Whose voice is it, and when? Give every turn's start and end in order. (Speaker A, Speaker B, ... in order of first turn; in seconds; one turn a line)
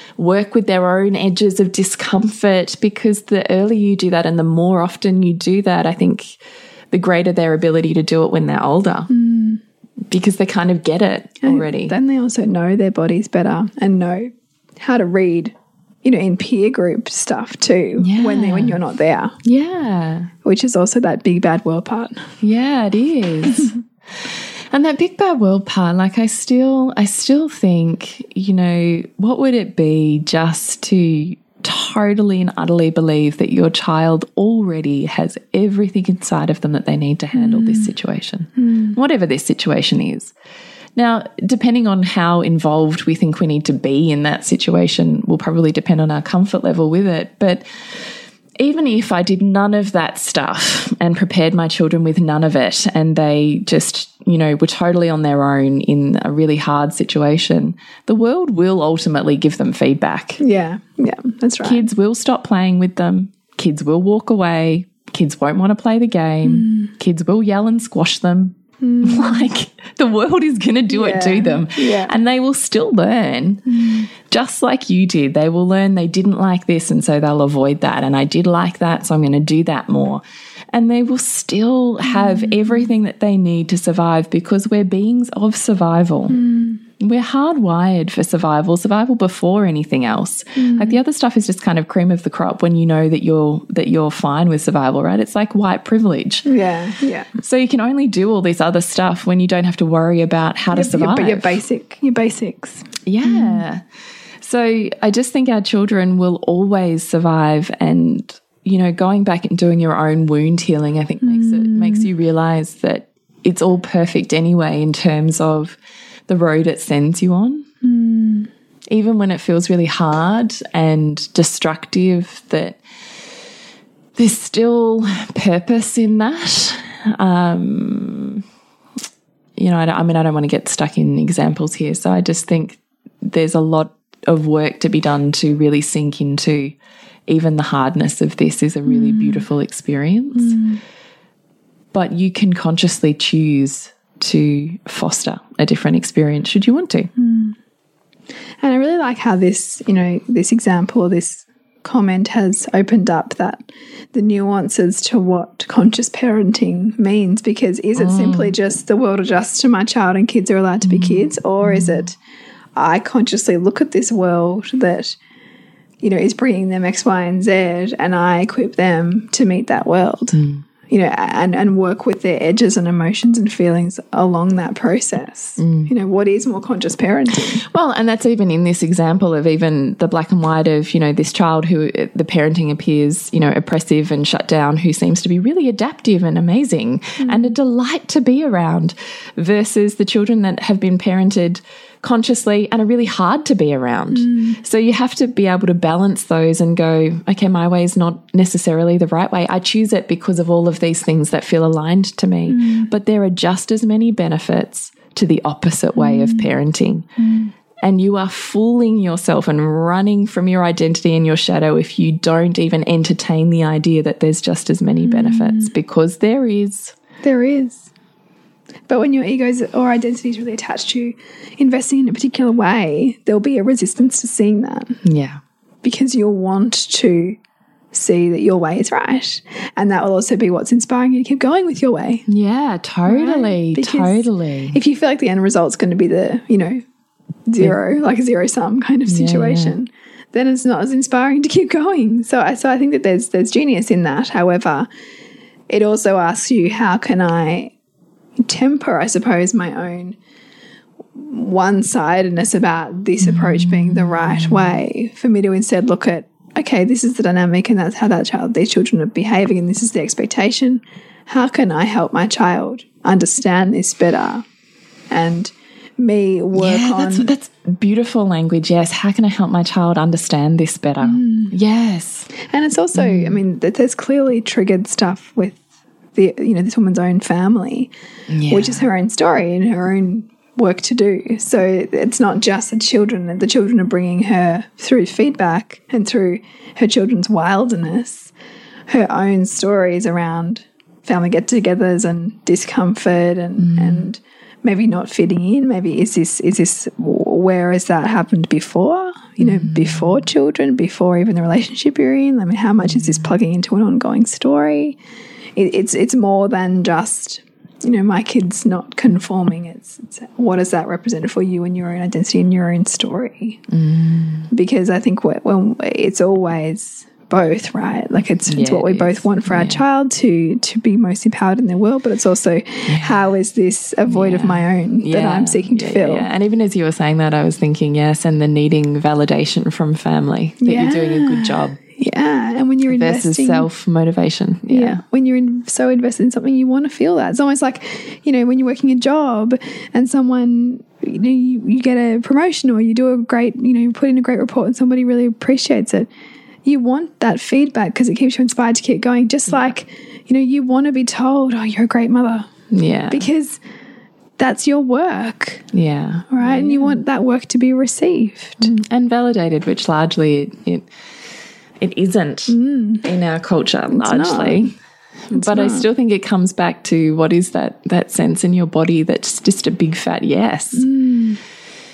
Speaker A: 0.2-6.4
Speaker A: 6.9-9.1
Speaker B: 9.1-9.6
Speaker A: 10.1-11.9
Speaker B: 11.4-15.5
Speaker B: 16.0-19.4
Speaker A: 18.0-18.8
Speaker A: 19.4-20.3
Speaker B: 20.4-22.3
Speaker A: 22.4-23.7
Speaker A: 24.2-40.3
Speaker B: 37.3-37.9
Speaker B: 38.6-39.0
Speaker A: 41.0-47.6
Speaker A: 48.6-60.4
Speaker B: 60.4-61.8
Speaker A: 61.6-73.6
Speaker B: 66.4-66.9
Speaker B: 68.8-69.5
Speaker B: 70.9-72.1
Speaker B: 73.7-74.1
Speaker A: 74.2-86.4
Speaker B: 82.0-82.9
Speaker B: 86.3-86.8
Speaker A: 87.0-96.5
Speaker B: 90.5-91.0
Speaker B: 96.4-97.3
Speaker A: 97.4-101.6
Speaker B: 100.7-103.6
Speaker A: 103.0-103.8
Speaker A: 104.4-117.7
Speaker B: 111.2-112.1
Speaker B: 117.8-118.5
Speaker A: 118.9-122.8
Speaker A: 124.2-128.4
Speaker A: 129.6-136.8
Speaker A: 137.3-140.6
Speaker B: 138.8-139.5
Speaker B: 140.3-140.8
Speaker A: 141.9-147.1
Speaker B: 147.2-147.6
Speaker B: 148.6-162.2
Speaker A: 157.9-158.6
Speaker A: 160.8-162.1
Speaker B: 162.8-165.2
Speaker B: 166.0-177.6
Speaker A: 170.3-170.6
Speaker A: 175.6-175.9
Speaker A: 177.6-207.1
Speaker B: 187.2-187.5
Speaker B: 194.1-194.6
Speaker B: 202.5-202.9
Speaker B: 205.9-206.5
Speaker B: 207.2-207.5
Speaker A: 207.8-216.9
Speaker B: 215.0-215.7
Speaker B: 217.2-217.9
Speaker B: 218.9-225.0
Speaker A: 225.0-225.4
Speaker B: 225.8-227.4
Speaker B: 227.9-232.2
Speaker A: 232.3-234.8
Speaker B: 233.1-236.8
Speaker B: 237.5-244.9
Speaker A: 239.1-239.8
Speaker B: 245.7-247.7
Speaker B: 248.4-250.2
Speaker B: 251.2-264.4
Speaker A: 253.2-254.7
Speaker B: 265.1-267.3
Speaker A: 266.5-272.3
Speaker B: 271.0-271.5
Speaker B: 272.4-275.6
Speaker A: 272.9-273.4
Speaker B: 276.1-277.9
Speaker A: 278.3-278.8
Speaker B: 278.5-288.3
Speaker B: 288.9-305.0
Speaker A: 293.6-294.1
Speaker A: 299.4-300.1
Speaker B: 305.6-313.6
Speaker A: 313.7-314.5
Speaker B: 314.5-326.3
Speaker A: 318.5-319.8
Speaker A: 322.9-323.2
Speaker A: 324.1-331.8
Speaker B: 330.6-333.7
Speaker A: 332.9-335.0
Speaker B: 334.7-346.1
Speaker B: 346.6-352.5
Speaker A: 352.7-353.3
Speaker B: 353.1-353.6
Speaker B: 354.4-355.6
Speaker A: 355.7-357.0
Speaker B: 356.3-358.8
Speaker A: 358.6-360.9
Speaker A: 361.8-364.7
Speaker B: 362.5-363.1
Speaker B: 363.9-364.7
Speaker A: 365.3-370.9
Speaker B: 365.3-365.9
Speaker B: 370.7-371.4